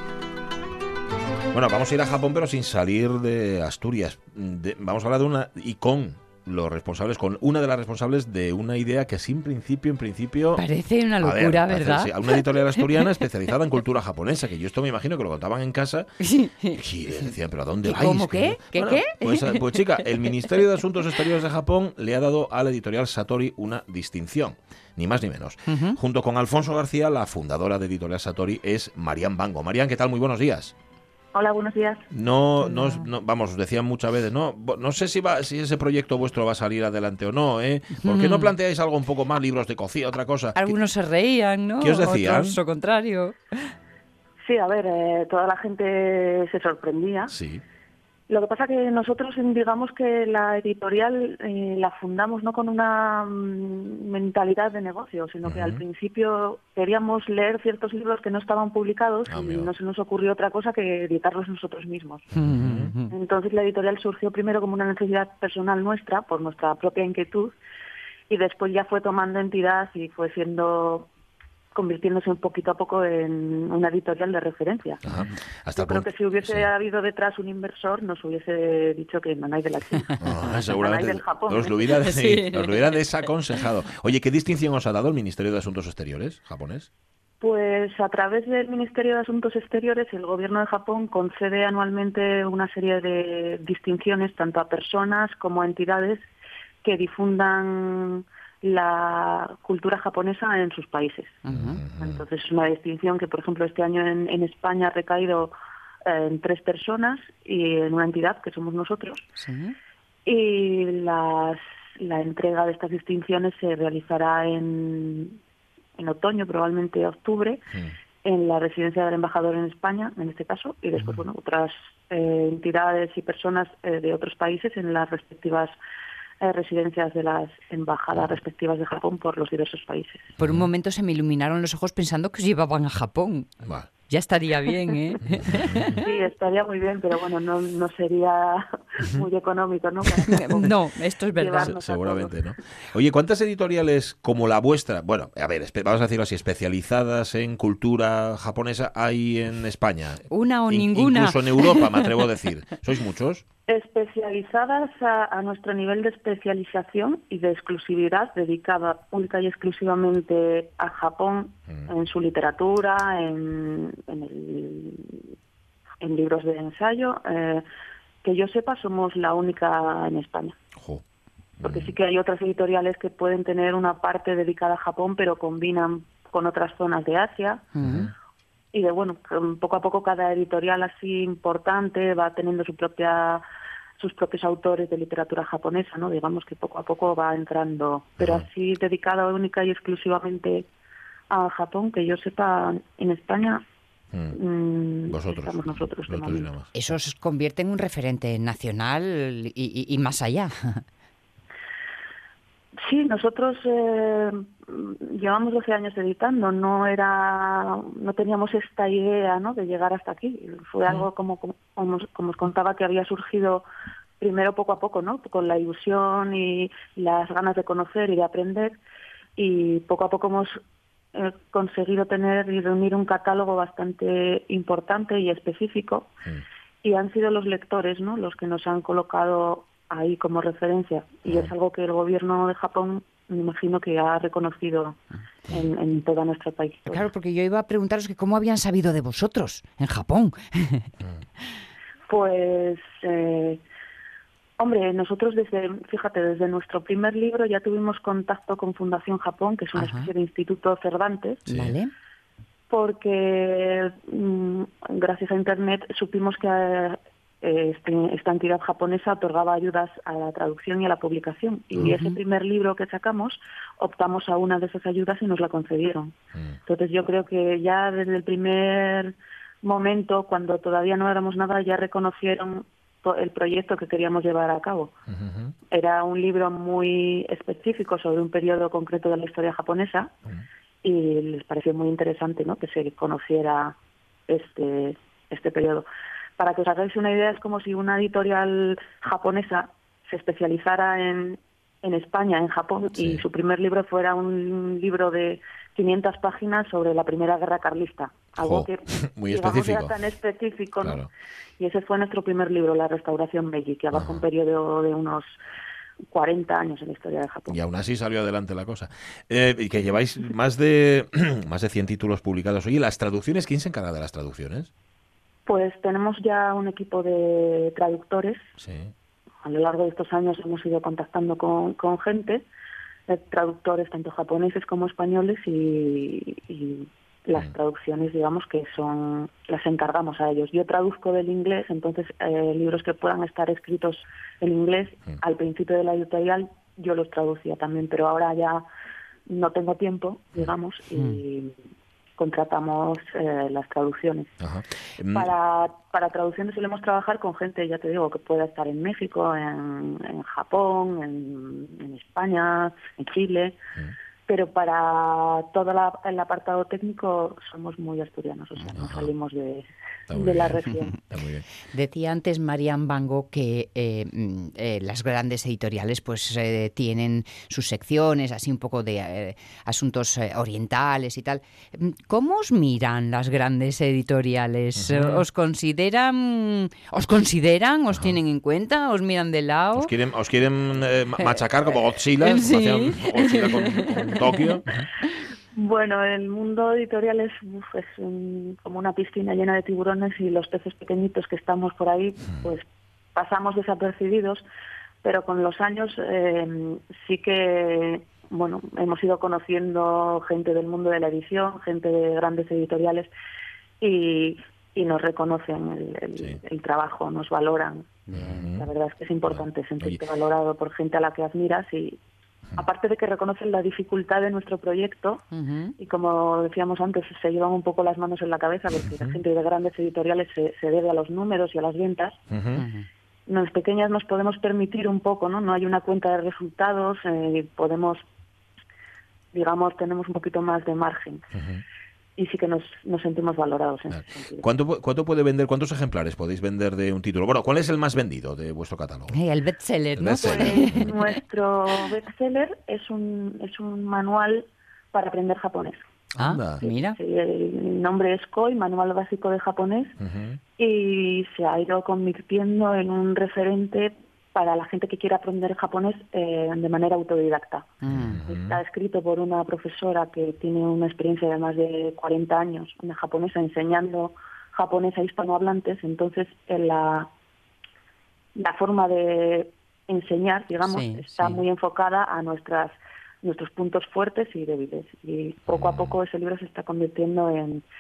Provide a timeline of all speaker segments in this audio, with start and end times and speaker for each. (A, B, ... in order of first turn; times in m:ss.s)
0:01.5-0:10.6 A
0:10.6-0:13.1 B
0:11.2-0:16.1 A
0:16.2-0:16.8 B
0:16.7-0:30.7 A
0:17.8-0:20.3 B
0:25.7-0:26.0 B
0:31.4-0:32.0 C
0:32.1-0:40.8 A
0:32.7-0:33.1 B
0:38.0-0:38.5 B
0:40.6-0:43.7 B
0:41.8-0:42.6 A
0:44.5-0:47.4 C
0:47.3-0:47.6 A
0:48.3-1:02.3 C
0:55.5-0:55.8 A
0:59.3-0:59.7 A
1:02.4-1:02.9 A
1:02.4-1:03.1 B
1:03.1-1:07.5 C
1:08.3-1:11.1 C
1:11.7-1:15.0 C
1:15.0-1:16.7 A
1:15.8-1:21.8 C
1:20.2-1:26.9 A
1:22.0-1:22.8 B
1:27.4-1:36.2 C
1:36.8-1:41.4 C
1:41.4-1:41.8 B
1:41.5-1:42.2 A
1:42.0-1:45.5 C
1:46.0-1:49.2 C
1:49.4-1:49.8 B
1:50.3-1:55.4 C
1:56.0-1:57.6 C
1:58.2-2:05.7 C
2:06.4-2:10.3 C
2:10.4-2:10.7 A
2:10.4-2:13.5 B
2:14.1-2:16.0 B
2:15.3-2:16.0 A
2:16.0-2:20.7 C
2:20.3-2:21.7 B
2:21.4-2:22.4 C
2:21.6-2:33.4 A
2:30.3-2:32.1 B
2:33.7-2:45.2 C
2:46.0-2:47.6 C
2:48.2-2:50.6 C
2:50.8-2:51.0 A
2:51.6-2:52.0 A
2:51.6-2:57.7 C
2:57.8-2:58.1 B
2:57.8-2:58.1 A
2:58.7-3:03.4 C
3:04.0-3:10.7 C
3:08.2-3:08.4 A
3:11.3-3:13.6 C
3:14.1-3:14.4 A
3:14.3-3:16.5 C
3:15.1-3:16.7 A
3:16.7-3:20.8 B
3:22.8-3:33.7 C
3:34.2-3:38.8 C
3:39.4-3:40.6 C
3:41.1-3:46.1 C
3:46.8-3:57.1 C
3:51.3-3:51.5 A
3:56.9-4:00.9 B
4:02.1-4:03.6 C
4:04.6-4:11.5 C
4:09.8-4:10.1 B
4:11.5-4:11.8 A
4:11.5-4:11.9 B
4:12.7-4:26.1 C
4:21.8-4:22.2 B
4:26.7-4:34.9 C
4:35.1-4:35.5 A
4:35.7-4:40.1 C
4:40.8-4:43.8 C
4:44.3-5:01.0 C
4:53.0-4:53.2 A
4:58.4-4:59.9 A
5:00.8-5:01.1 A
5:01.6-5:05.3 C
5:03.9-5:04.2 A
5:06.1-5:07.6 C
5:07.5-5:14.7 A
5:15.5-5:18.4 C
5:18.6-5:18.9 A
5:19.4-5:22.4 C
5:23.1-5:38.6 C
5:39.3-5:41.5 C
5:42.2-5:44.3 C
5:44.4-5:45.3 A
5:45.1-5:53.6 C
5:54.3-6:01.0 C
5:58.8-5:59.1 A
6:00.1-6:01.4 A
6:01.7-6:19.9 B
6:14.8-6:15.2 A
6:19.8-6:24.9 A
6:22.2-6:24.4 B
6:25.6-6:34.4 C
6:35.0-6:43.1 C
6:43.8-6:52.0 C
6:48.1-6:48.5 B
6:48.1-6:48.7 A
6:49.3-6:50.0 A
6:52.6-6:55.2 C
6:55.3-6:55.7 B
6:55.8-7:02.2 C
7:02.3-7:02.6 A
7:02.6-7:02.9 B
7:03.3-7:08.0 C
7:09.3-7:11.2 C
7:11.4-7:11.6 A
7:12.2-7:14.4 C
7:13.9-7:19.2 A
7:19.1-7:21.1 B
7:20.0-7:20.9 A
7:20.2-7:25.8 C
7:26.2-7:26.6 A
7:26.2-7:27.0 B
7:26.6-7:29.9 C
7:30.0-7:30.4 A
7:30.6-7:47.1 C
7:37.8-7:38.2 B
7:37.9-7:38.6 A
7:48.4-7:57.6 C
7:50.7-7:51.4 B
7:55.5-7:55.9 A